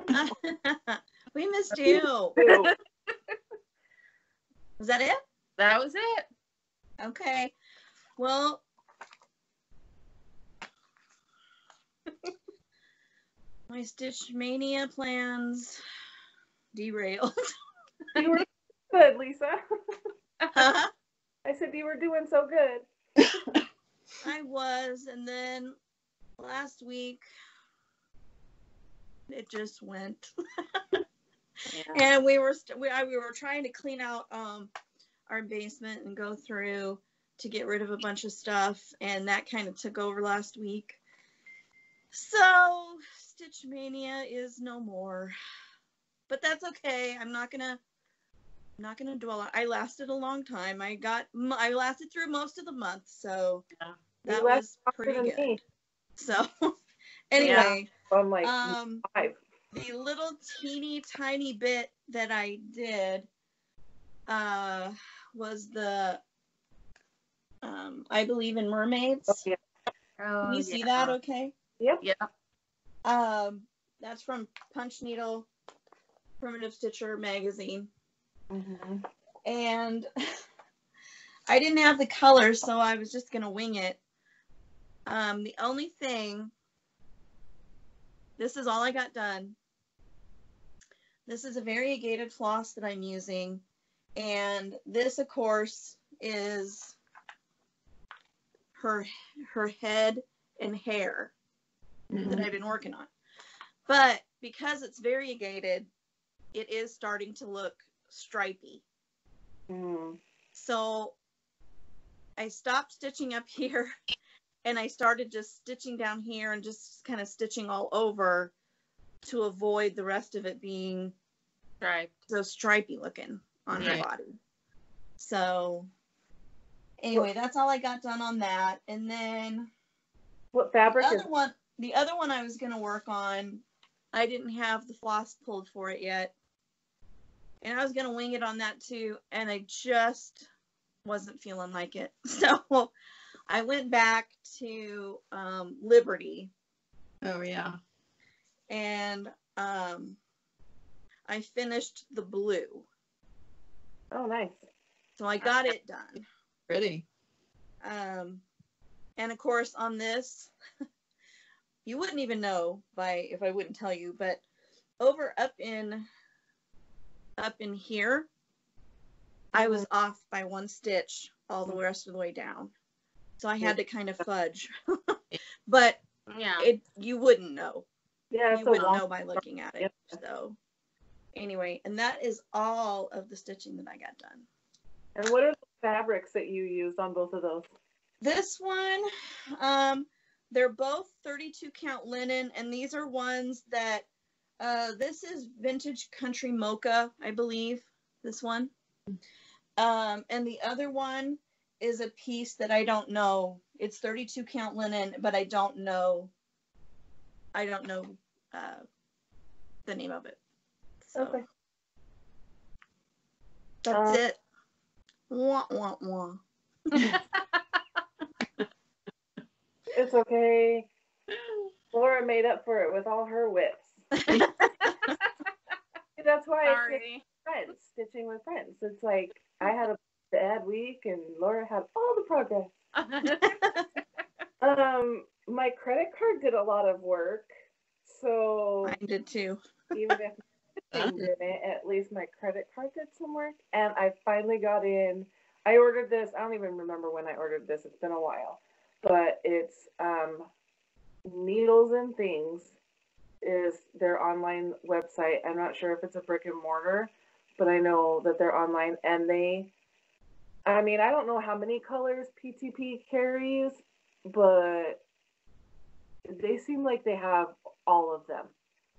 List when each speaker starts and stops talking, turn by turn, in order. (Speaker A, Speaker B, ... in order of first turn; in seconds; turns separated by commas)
Speaker A: 0.1-2.4, Speaker B: 1.9-2.7, Speaker C: 2.4-3.1, Speaker A: 4.8-5.2, Speaker C: 5.6-6.3, Speaker A: 7.0-7.5, Speaker A: 8.2-8.6, Speaker A: 13.7-15.8, Speaker A: 16.7-17.3, Speaker B: 18.1-19.6, Speaker A: 20.5-20.9, Speaker B: 21.4-22.9, Speaker A: 24.2-25.8, Speaker A: 26.4-27.2, Speaker A: 29.3-31.0, Speaker C: 31.7-32.0, Speaker A: 31.9-34.7, Speaker A: 35.3-41.0, Speaker A: 42.1-45.3, Speaker A: 46.3-47.8, Speaker A: 48.8-53.6, Speaker A: 54.2-55.6, Speaker B: 54.2-55.6, Speaker A: 56.2-56.7, Speaker A: 57.3-57.9, Speaker B: 57.4-59.4, Speaker C: 57.4-57.7, Speaker A: 58.4-59.0, Speaker A: 59.7-63.3, Speaker A: 64.3-66.2, Speaker A: 67.6-69.4, Speaker B: 69.3-69.6, Speaker C: 70.2-71.2, Speaker A: 70.4-71.5, Speaker C: 72.0-72.3, Speaker A: 73.0-75.5, Speaker A: 76.4-77.9, Speaker B: 78.5-79.0, Speaker A: 79.5-80.1, Speaker A: 81.5-84.0, Speaker A: 85.0-86.5, Speaker A: 88.4-89.5, Speaker A: 91.3-93.6, Speaker A: 94.2-97.0, Speaker A: 98.7-101.3, Speaker D: 102.1-102.5, Speaker B: 102.1-102.4, Speaker A: 102.3-103.1, Speaker A: 103.9-105.9, Speaker A: 106.5-108.8, Speaker B: 109.7-110.2, Speaker A: 110.5-111.2, Speaker A: 112.4-113.9, Speaker A: 114.6-118.5, Speaker A: 119.2-121.1, Speaker C: 121.8-122.1, Speaker A: 122.3-124.4, Speaker C: 123.7-124.0, Speaker D: 123.7-124.0, Speaker A: 125.2-125.9, Speaker A: 127.0-129.7, Speaker B: 130.5-131.3, Speaker A: 131.0-136.3, Speaker A: 137.6-140.5, Speaker A: 141.0-142.9, Speaker A: 143.5-146.5, Speaker D: 147.2-147.8, Speaker A: 148.7-150.2, Speaker A: 151.3-152.8, Speaker B: 154.1-154.7, Speaker A: 155.2-156.2, Speaker D: 156.7-157.0, Speaker A: 157.8-158.4, Speaker A: 159.2-160.5, Speaker A: 161.8-164.4, Speaker A: 165.0-166.1, Speaker A: 167.4-168.3, Speaker A: 169.5-172.7, Speaker B: 169.5-169.8, Speaker A: 173.4-176.0, Speaker C: 176.3-176.7, Speaker A: 176.6-177.8, Speaker B: 178.3-180.2, Speaker A: 178.5-180.6, Speaker A: 181.3-184.4, Speaker B: 185.2-187.7, Speaker A: 188.2-194.1, Speaker A: 194.6-198.7, Speaker A: 199.8-206.3, Speaker A: 207.5-208.8, Speaker A: 209.8-210.4, Speaker A: 211.0-211.4, Speaker B: 211.1-211.4, Speaker A: 213.8-214.4, Speaker B: 213.9-214.2, Speaker A: 215.3-217.0, Speaker C: 216.9-217.6, Speaker B: 219.9-220.9, Speaker B: 221.9-224.0, Speaker A: 224.1-225.1, Speaker B: 226.2-232.7, Speaker C: 226.6-227.2, Speaker C: 232.9-233.8, Speaker A: 233.4-233.8, Speaker B: 234.6-237.5, Speaker B: 238.0-239.0, Speaker A: 238.8-239.6, Speaker B: 239.9-250.5, Speaker D: 240.9-241.2, Speaker B: 251.2-252.7, Speaker B: 253.4-259.7, Speaker B: 260.6-265.0, Speaker B: 266.2-268.5